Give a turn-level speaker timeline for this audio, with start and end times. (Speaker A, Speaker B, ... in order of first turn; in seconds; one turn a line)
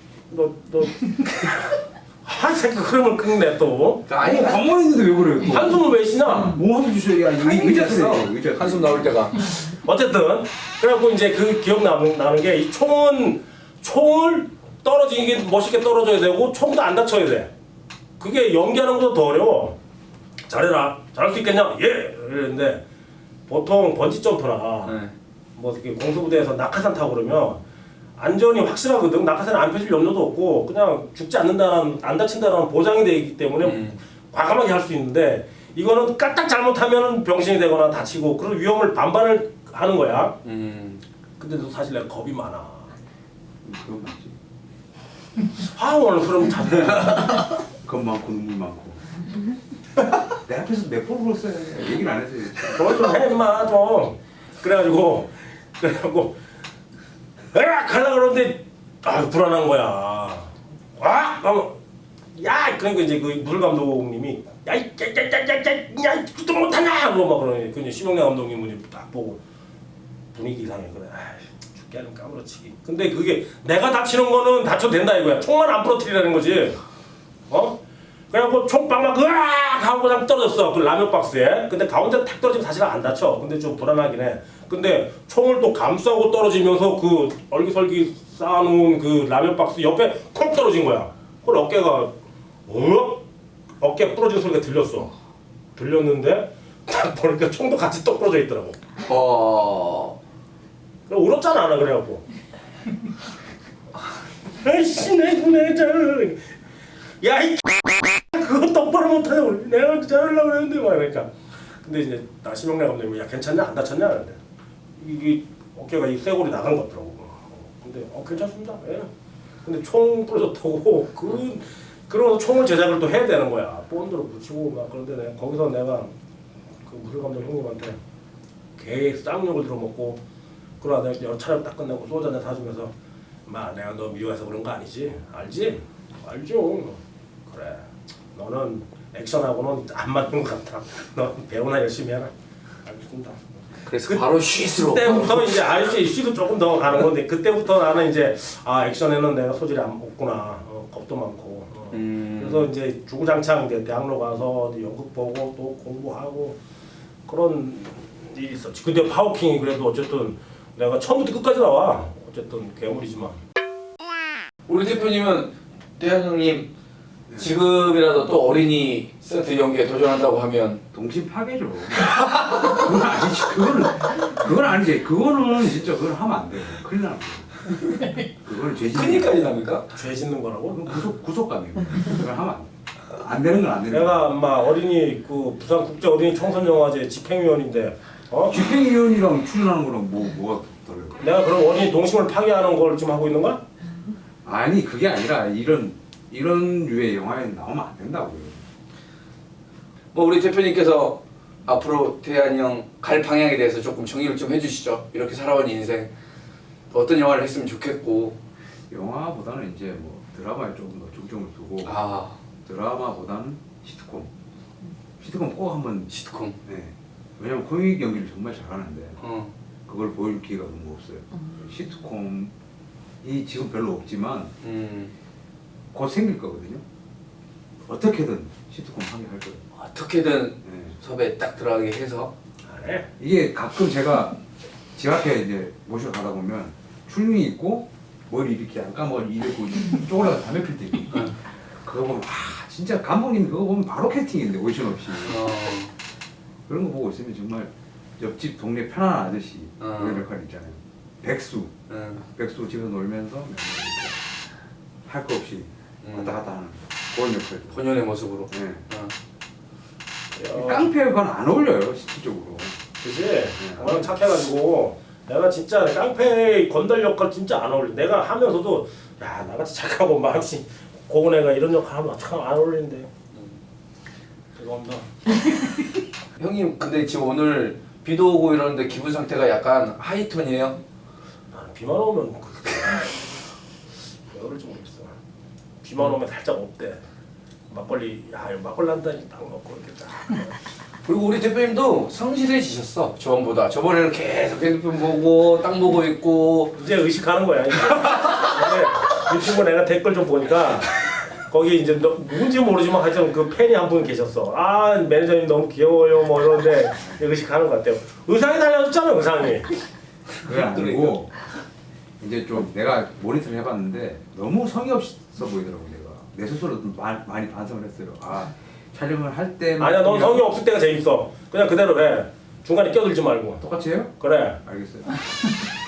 Speaker A: 0.3-4.0
Speaker B: 4.1-4.7
Speaker C: 4.2-5.8
Speaker A: 5.4-6.6
Speaker C: 6.3-9.1
Speaker B: 7.3-9.5
Speaker A: 9.6-17.5
Speaker A: 18.2-19.8
Speaker A: 20.5-22.8
Speaker A: 23.5-25.0
Speaker B: 24.8-25.1
Speaker A: 25.6-27.6
Speaker A: 28.2-40.4
Speaker B: 33.6-34.0
Speaker B: 40.4-41.0
Speaker A: 41.4-42.9
Speaker C: 43.6-44.4
Speaker A: 45.6-47.5
Speaker C: 47.8-49.0
Speaker C: 50.3-53.3
Speaker A: 52.7-56.4
Speaker A: 57.5-61.8
Speaker A: 62.3-69.4
Speaker A: 70.3-76.8
Speaker A: 77.5-77.8
Speaker A: 78.3-92.1
Speaker A: 92.7-93.2
Speaker A: 93.8-95.1
Speaker A: 95.8-98.8
Speaker B: 99.0-100.2
Speaker A: 101.1-102.2
Speaker A: 104.6-106.4
Speaker A: 107.2-111.3
Speaker A: 111.8-114.4
Speaker A: 115.0-119.1
Speaker A: 119.6-126.1
Speaker A: 126.8-128.0
Speaker A: 128.8-130.2
Speaker A: 130.8-132.9
Speaker A: 133.4-142.3
Speaker A: 142.8-143.4
Speaker B: 143.8-145.6
Speaker A: 144.8-156.6
Speaker B: 151.9-152.7
Speaker A: 157.2-163.4
Speaker B: 164.7-166.7
Speaker B: 167.3-170.8
Speaker C: 170.9-177.5
Speaker B: 172.0-172.8
Speaker C: 178.4-179.3
Speaker B: 178.8-179.9
Speaker A: 179.9-181.0
Speaker C: 180.7-184.3
Speaker A: 183.9-188.7
Speaker C: 188.5-191.2
Speaker A: 191.2-193.6
Speaker C: 194.4-198.6
Speaker B: 200.1-206.1
Speaker B: 206.9-208.4
Speaker C: 208.9-212.0
Speaker B: 211.8-212.4
Speaker C: 212.6-214.3
Speaker C: 215.2-216.1
Speaker B: 216.1-216.6
Speaker C: 216.7-219.2
Speaker B: 219.2-219.5
Speaker C: 219.8-222.5
Speaker C: 223.2-224.5
Speaker B: 224.6-225.1
Speaker C: 225.9-226.8
Speaker C: 227.8-229.6
Speaker B: 229.8-232.3
Speaker C: 230.6-230.9
Speaker A: 232.6-233.1
Speaker C: 233.2-234.4
Speaker C: 234.9-241.3
Speaker C: 241.8-245.4
Speaker B: 245.2-245.9
Speaker C: 246.7-254.2
Speaker B: 249.8-250.2
Speaker B: 251.9-252.2
Speaker C: 255.1-257.8
Speaker B: 256.0-256.4
Speaker B: 257.7-259.1
Speaker C: 258.5-258.8
Speaker A: 260.3-260.9
Speaker C: 260.5-262.8
Speaker A: 263.0-273.1
Speaker C: 263.6-264.0
Speaker A: 274.5-275.1
Speaker B: 276.4-280.8
Speaker A: 281.5-283.4
Speaker A: 284.2-285.1
Speaker A: 285.8-287.0
Speaker A: 287.7-290.5
Speaker B: 291.0-296.8
Speaker A: 296.7-309.7
Speaker B: 310.4-311.2
Speaker C: 310.4-311.3
Speaker C: 312.2-320.5
Speaker A: 319.8-323.6
Speaker C: 323.6-325.2
Speaker A: 324.2-324.6